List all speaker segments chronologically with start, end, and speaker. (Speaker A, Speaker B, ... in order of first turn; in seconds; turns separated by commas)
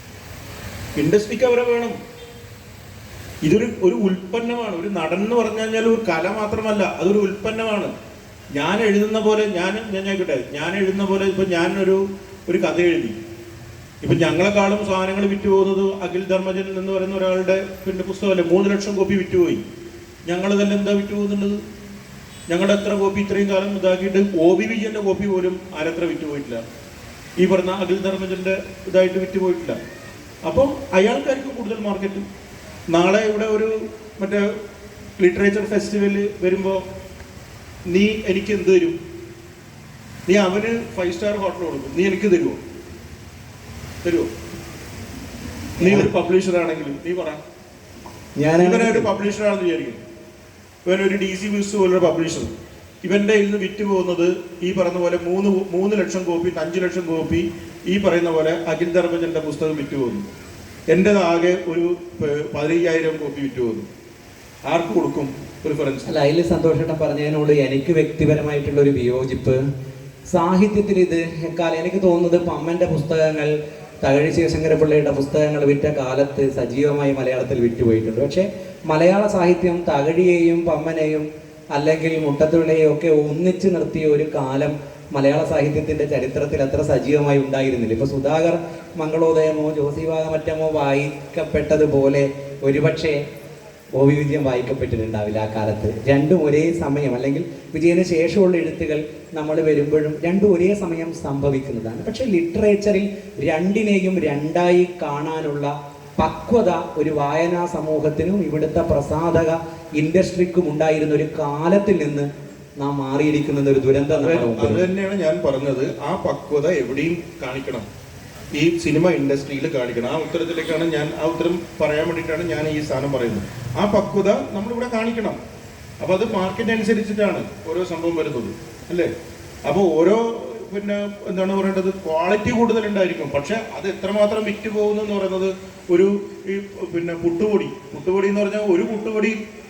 Speaker A: 0.9-2.0, Speaker A: 3.4-7.9, Speaker A: 8.5-13.2, Speaker A: 14.0-19.6, Speaker A: 20.3-21.6, Speaker A: 22.5-26.6, Speaker A: 27.4-29.8, Speaker A: 30.4-32.2, Speaker A: 32.9-34.4, Speaker A: 35.2-36.8, Speaker A: 37.9-39.0, Speaker A: 40.3-42.6, Speaker A: 44.0-44.3, Speaker B: 45.8-46.1, Speaker A: 45.8-47.4, Speaker B: 48.4-49.1, Speaker A: 48.6-50.0, Speaker A: 50.9-52.5, Speaker A: 53.0-60.3, Speaker A: 60.9-63.9, Speaker A: 64.7-66.1, Speaker B: 66.1-69.6, Speaker B: 70.3-93.2, Speaker B: 94.0-112.3, Speaker B: 112.8-114.8, Speaker A: 114.1-117.8, Speaker A: 118.5-125.4, Speaker A: 126.0-129.1, Speaker A: 129.7-139.3